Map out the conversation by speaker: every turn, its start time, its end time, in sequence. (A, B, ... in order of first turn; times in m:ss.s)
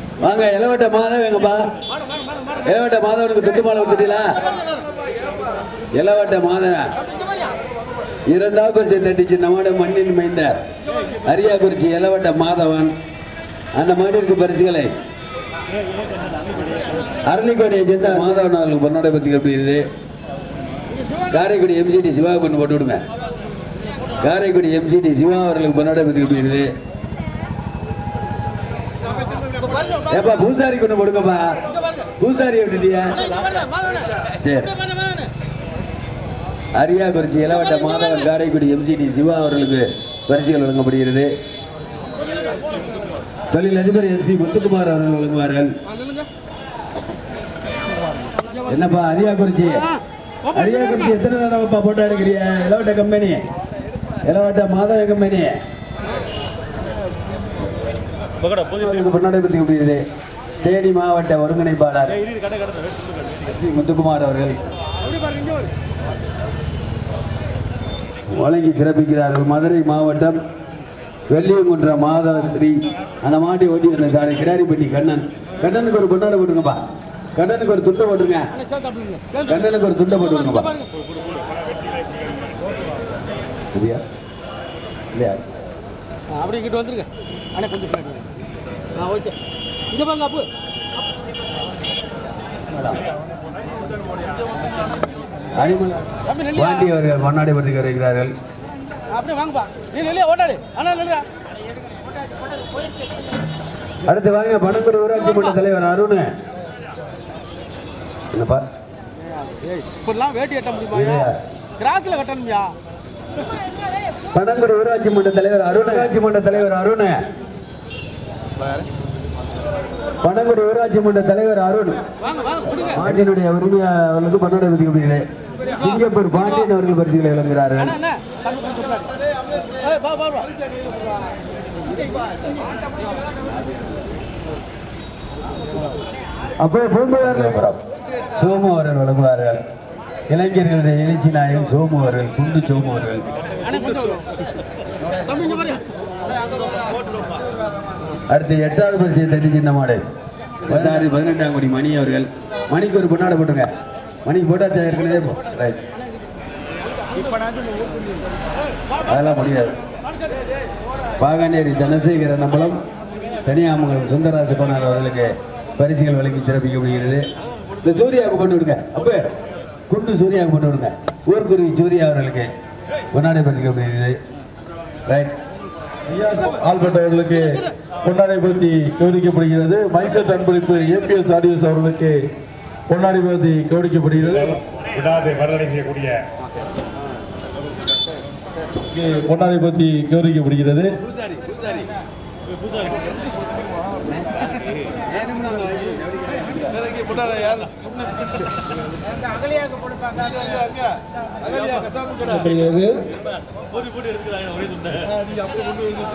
0:00.2-0:01.7 A
0:02.6-0:04.6 A
0:05.9-0:06.9 A
0:08.3-0:10.6 A
0:11.2-0:12.9 A
0:13.8-0:14.9 A
0:17.2-0:19.8 A
0:21.3-0:23.0 A
0:24.2-0:26.7 A
0:30.1-0:33.4 A
0:33.5-0:34.1 B
0:34.4-0:34.8 A
0:36.8-0:41.3 A
0:43.5-0:45.7 A
0:48.6-0:49.9 A
0:50.5-0:53.4 A
0:54.2-0:55.6 A
0:58.6-1:00.0 A
1:00.6-1:02.2 A
1:03.4-1:04.6 A
1:05.1-1:05.7 B
1:08.3-1:10.4 A
1:11.3-1:16.8 A
1:17.4-1:18.5 A
1:18.7-1:19.4 B
1:19.4-1:20.7 A
1:23.7-1:24.0 A
1:25.1-1:25.4 A
1:26.3-1:28.3 B
1:28.9-1:29.4 B
1:29.9-1:30.5 B
1:32.8-1:33.1 A
1:35.6-1:38.3 A
1:39.1-1:41.3 B
1:44.0-1:46.3 A
1:48.3-1:48.6 A
1:49.6-1:50.9 B
1:50.9-1:51.4 A
1:51.8-1:52.8 B
1:54.3-1:57.2 A
2:00.2-2:02.0 A
2:02.9-2:08.0 A
2:08.1-2:09.1 B
2:09.8-2:10.5 B
2:16.6-2:17.8 A
2:18.4-2:19.6 A
2:20.3-2:23.2 A
2:23.7-2:24.2 B
2:25.2-2:25.9 B
2:28.3-2:30.0 A
2:30.7-2:33.7 A
2:34.2-2:35.8 A
2:37.2-2:37.8 B
2:39.0-2:39.8 A
2:41.2-2:42.8 A
2:43.4-2:47.2 A
2:47.8-2:49.3 A
2:49.9-2:52.5 A
2:53.1-2:54.2 A
2:55.1-2:55.3 A
2:56.1-3:02.2 C
3:02.9-3:06.3 C
3:08.9-3:10.9 C
3:15.2-3:15.9 A
3:22.2-3:23.0 C